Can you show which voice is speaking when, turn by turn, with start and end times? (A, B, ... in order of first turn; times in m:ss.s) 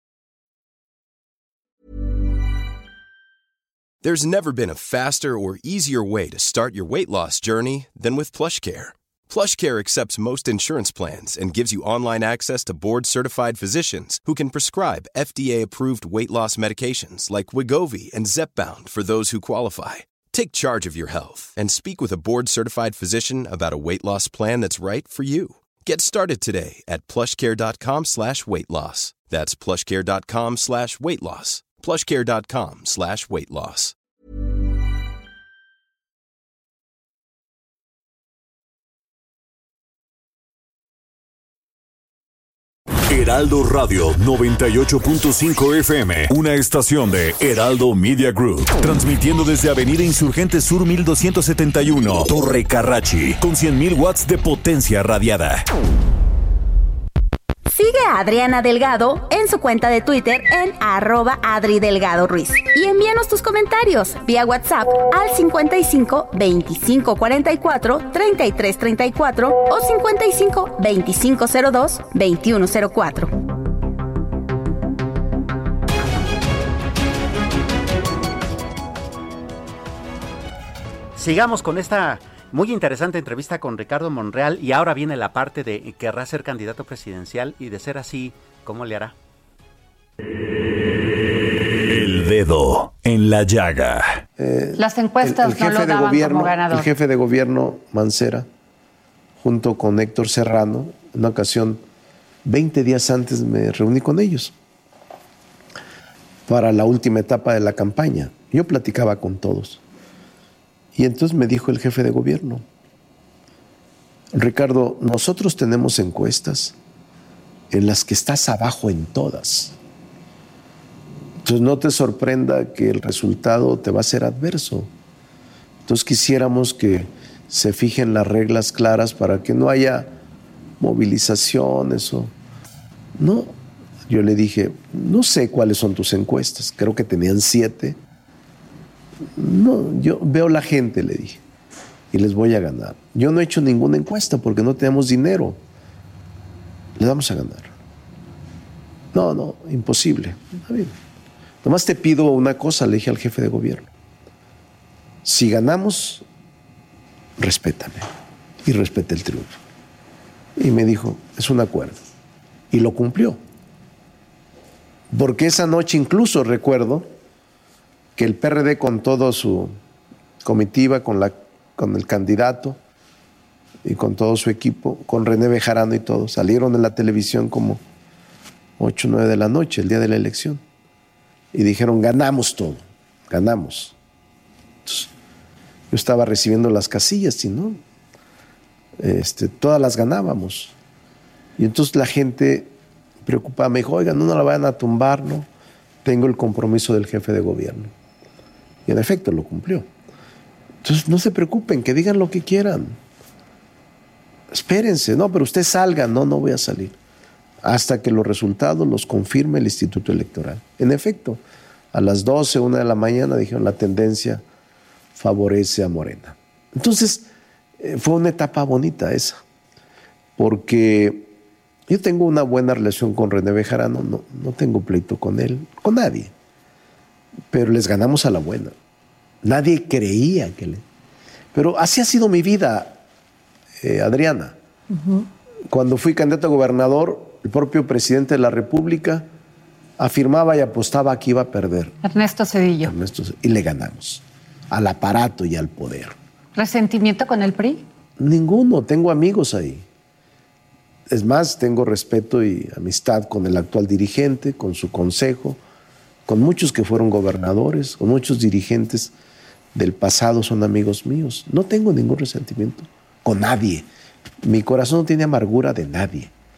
0:04.0-0:33.9 A
0:43.1-0:55.6 B
0:57.7-1:13.3 C
1:21.2-1:29.1 D
1:31.8-1:34.2 B
1:34.4-1:38.5 E
1:34.8-1:36.9 F
1:39.4-1:41.8 E
1:42.4-1:44.5 E
1:46.5-1:49.8 E
1:50.9-1:52.6 E
1:54.3-1:56.7 E
1:57.7-1:59.7 E
2:01.4-2:04.9 E
2:05.8-2:10.1 E
2:10.8-2:12.3 E
2:13.2-2:13.5 E
2:14.1-2:18.0 E
2:19.4-2:21.4 E
2:22.1-2:25.6 E
2:27.0-2:27.7 E
2:29.1-2:30.9 E
2:31.6-2:33.9 E
2:35.2-2:36.2 E
2:37.4-2:38.1 E
2:38.6-2:39.6 E
2:40.6-2:42.0 E
2:42.7-2:43.4 E
2:45.1-2:47.1 E
2:48.2-2:49.7 E
2:50.4-2:52.8 E
2:53.8-2:57.8 E
2:58.8-3:00.6 E
3:01.5-3:04.0 E
3:04.8-3:05.1 E
3:05.9-3:07.8 E
3:09.0-3:10.7 E
3:11.6-3:12.7 E
3:13.2-3:15.5 E
3:16.0-3:17.9 E
3:18.8-3:19.9 E
3:20.8-3:23.0 E
3:24.5-3:27.0 E
3:27.6-3:31.4 E
3:31.9-3:34.4 E
3:35.1-3:37.3 E
3:37.8-3:39.4 E
3:40.4-3:41.3 E
3:41.9-3:46.3 E
3:47.5-3:48.7 E
3:49.4-3:50.8 E
3:51.5-3:53.0 E
3:53.8-3:54.6 E
3:54.9-3:55.3 F
3:55.7-3:59.3 E
4:00.0-4:02.0 E
4:02.0-4:02.9 F
4:02.8-4:06.2 E
4:06.5-4:07.8 F
4:08.2-4:09.8 E
4:11.1-4:15.6 E
4:16.3-4:19.1 E
4:19.7-4:23.9 E
4:24.4-4:26.3 E